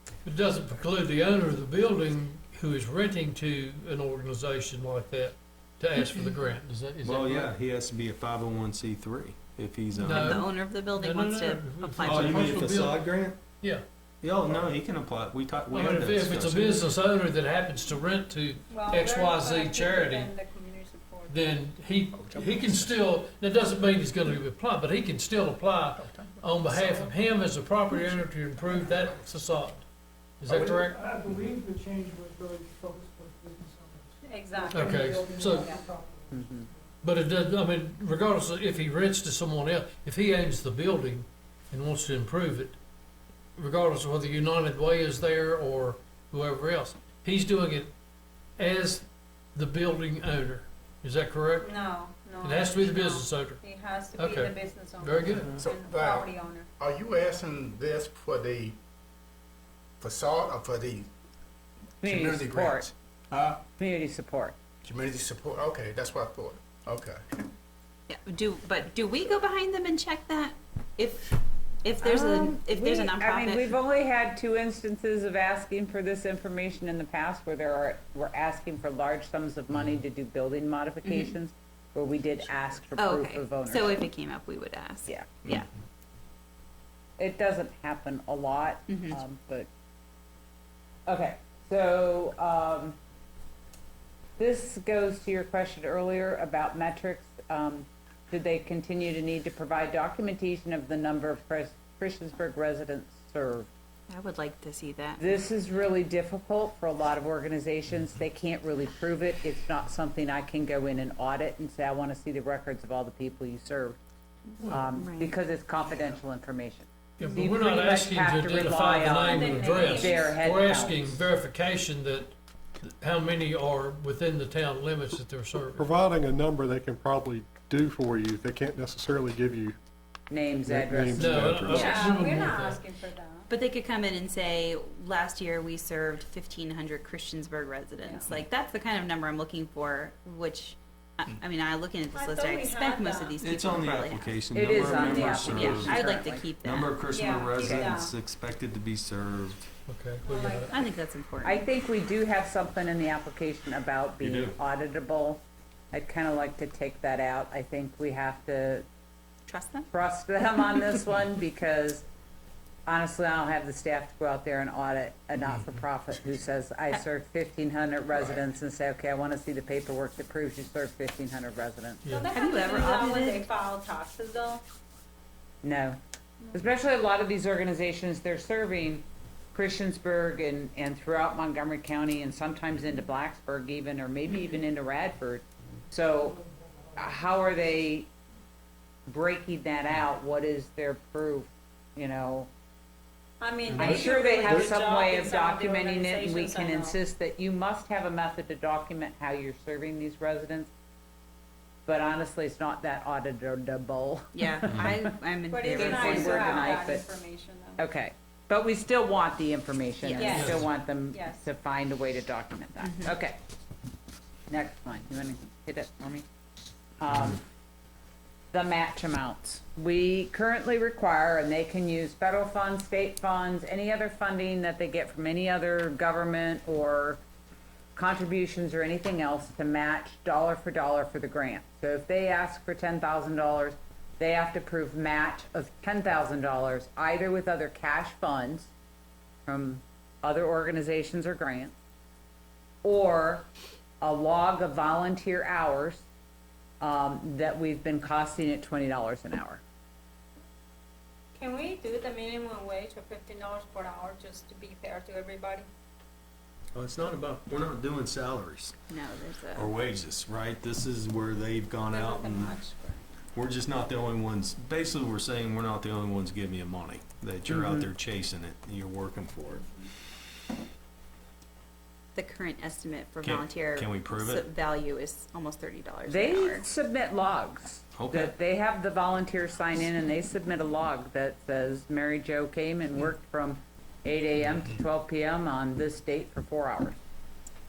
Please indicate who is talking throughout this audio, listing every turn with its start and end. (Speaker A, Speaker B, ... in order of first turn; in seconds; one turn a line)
Speaker A: 0.2-7.5
Speaker B: 7.0-10.4
Speaker A: 10.0-13.1
Speaker C: 10.1-12.6
Speaker B: 12.0-13.4
Speaker A: 13.6-13.8
Speaker B: 14.2-16.8
Speaker A: 15.7-20.3
Speaker D: 18.7-21.6
Speaker A: 21.3-29.9
Speaker E: 22.1-22.9
Speaker A: 30.4-31.0
Speaker F: 30.7-36.4
Speaker D: 34.2-34.8
Speaker A: 34.7-35.7
Speaker D: 35.5-35.8
Speaker G: 36.3-36.7
Speaker A: 37.0-42.8
Speaker A: 43.6-47.9
Speaker A: 48.6-51.7
Speaker D: 51.6-56.7
Speaker A: 52.4-53.6
Speaker A: 54.2-55.6
Speaker E: 55.5-58.8
Speaker E: 60.0-61.1
Speaker G: 62.0-62.9
Speaker E: 62.0-63.6
Speaker G: 63.8-64.5
Speaker E: 64.8-67.4
Speaker C: 68.1-73.7
Speaker G: 72.0-84.0
Speaker C: 81.0-81.3
Speaker C: 83.0-85.7
Speaker G: 87.2-89.7
Speaker C: 88.9-89.2
Speaker G: 91.1-93.0
Speaker G: 94.4-103.7
Speaker C: 104.1-105.2
Speaker G: 105.2-114.0
Speaker A: 114.6-114.9
Speaker G: 114.7-121.2
Speaker C: 115.0-115.3
Speaker A: 117.2-125.9
Speaker D: 119.2-120.5
Speaker H: 125.7-129.8
Speaker G: 130.3-131.5
Speaker H: 130.6-131.9
Speaker A: 131.2-132.8
Speaker D: 131.6-133.5
Speaker C: 131.7-132.2
Speaker C: 133.5-146.9
Speaker D: 138.0-138.3
Speaker D: 142.1-143.5
Speaker B: 143.4-149.7
Speaker G: 144.5-146.5
Speaker D: 147.1-148.1
Speaker G: 147.6-147.9
Speaker A: 149.9-150.8
Speaker D: 150.2-150.8
Speaker C: 150.7-151.6
Speaker G: 151.4-158.8
Speaker B: 154.2-154.6
Speaker C: 159.5-159.9
Speaker G: 159.9-162.0
Speaker G: 162.8-172.0
Speaker A: 172.0-172.3
Speaker D: 172.1-174.6
Speaker C: 172.3-173.4
Speaker G: 175.6-176.0
Speaker G: 176.5-186.4
Speaker G: 186.9-188.1
Speaker G: 189.1-192.5
Speaker D: 193.4-197.0
Speaker A: 193.7-194.7
Speaker G: 193.7-200.7
Speaker G: 201.8-204.9
Speaker C: 204.3-206.9
Speaker D: 205.5-207.8
Speaker G: 205.6-207.0
Speaker G: 207.8-213.4
Speaker D: 210.0-211.5
Speaker C: 210.0-210.6
Speaker A: 210.4-210.7
Speaker C: 212.8-213.1
Speaker G: 214.5-216.2
Speaker G: 217.0-217.4
Speaker G: 218.5-227.2
Speaker G: 227.9-238.7
Speaker G: 239.4-241.7
Speaker G: 242.8-243.5
Speaker G: 244.0-246.0
Speaker G: 246.8-249.6
Speaker D: 251.3-255.7
Speaker B: 256.7-258.8
Speaker C: 258.9-259.7
Speaker B: 259.5-262.6
Speaker D: 261.9-263.0
Speaker B: 263.3-269.7
Speaker G: 267.5-267.9
Speaker C: 272.1-276.6
Speaker B: 273.2-274.5
Speaker G: 276.1-287.0
Speaker B: 277.9-278.3